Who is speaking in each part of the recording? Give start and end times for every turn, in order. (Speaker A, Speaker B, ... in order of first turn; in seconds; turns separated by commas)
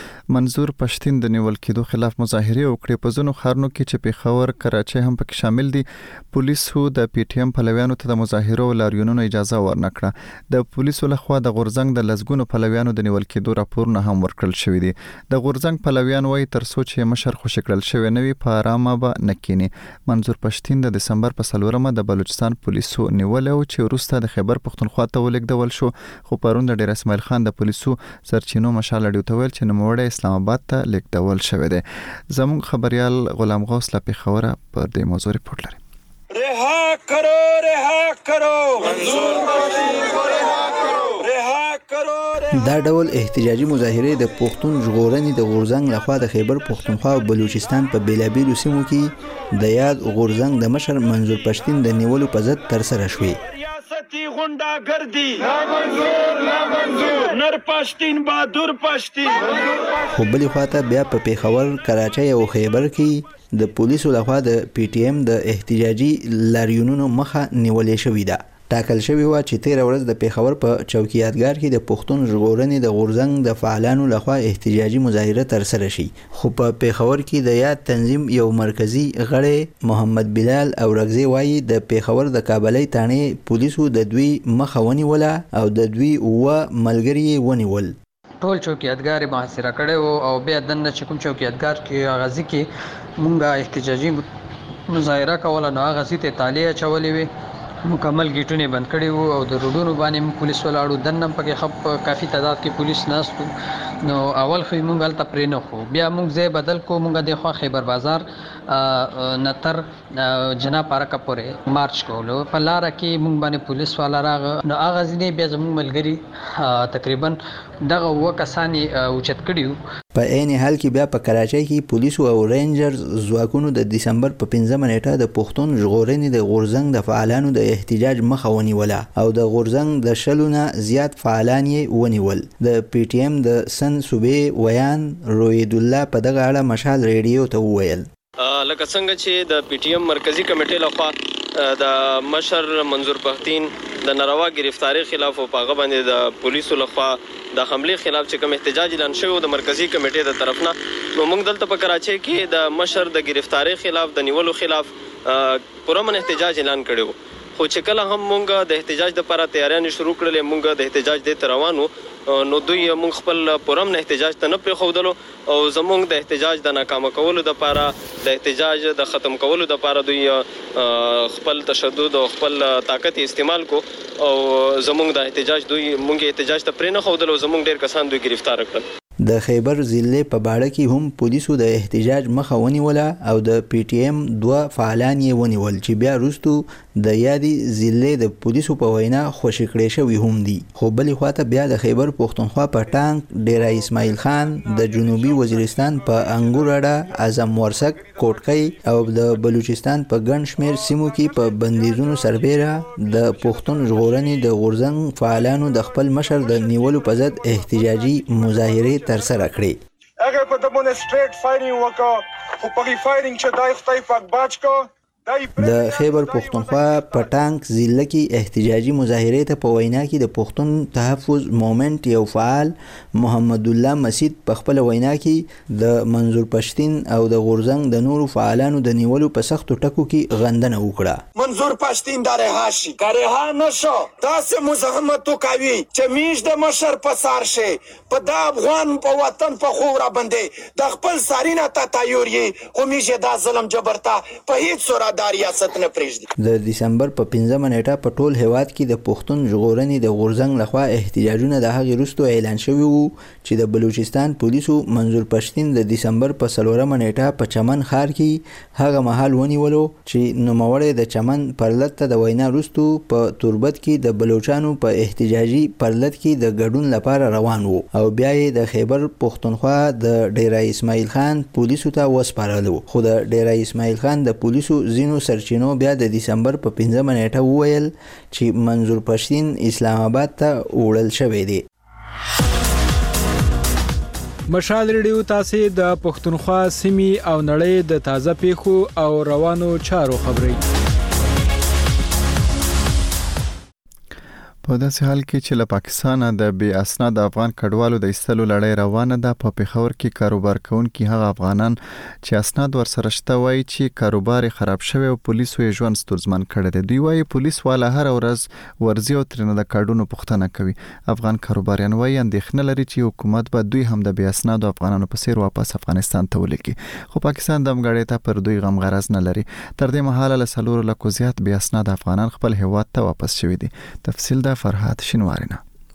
Speaker A: 0.3-35.8, Speaker B: 36.3-42.5, Speaker C: 39.0-39.3, Speaker D: 42.5-53.4, Speaker B: 53.6-59.7, Speaker D: 60.1-88.0, Speaker E: 88.4-92.7, Speaker E: 93.2-94.2, Speaker E: 94.9-97.3, Speaker E: 97.9-103.5, Speaker E: 104.0-119.8, Speaker D: 120.2-138.1, Speaker F: 138.4-178.8, Speaker D: 179.2-209.8, Speaker C: 210.2-217.3, Speaker D: 215.6-231.2, Speaker C: 231.4-246.2, Speaker D: 246.4-281.6, Speaker G: 284.5-290.6, Speaker A: 294.6-325.6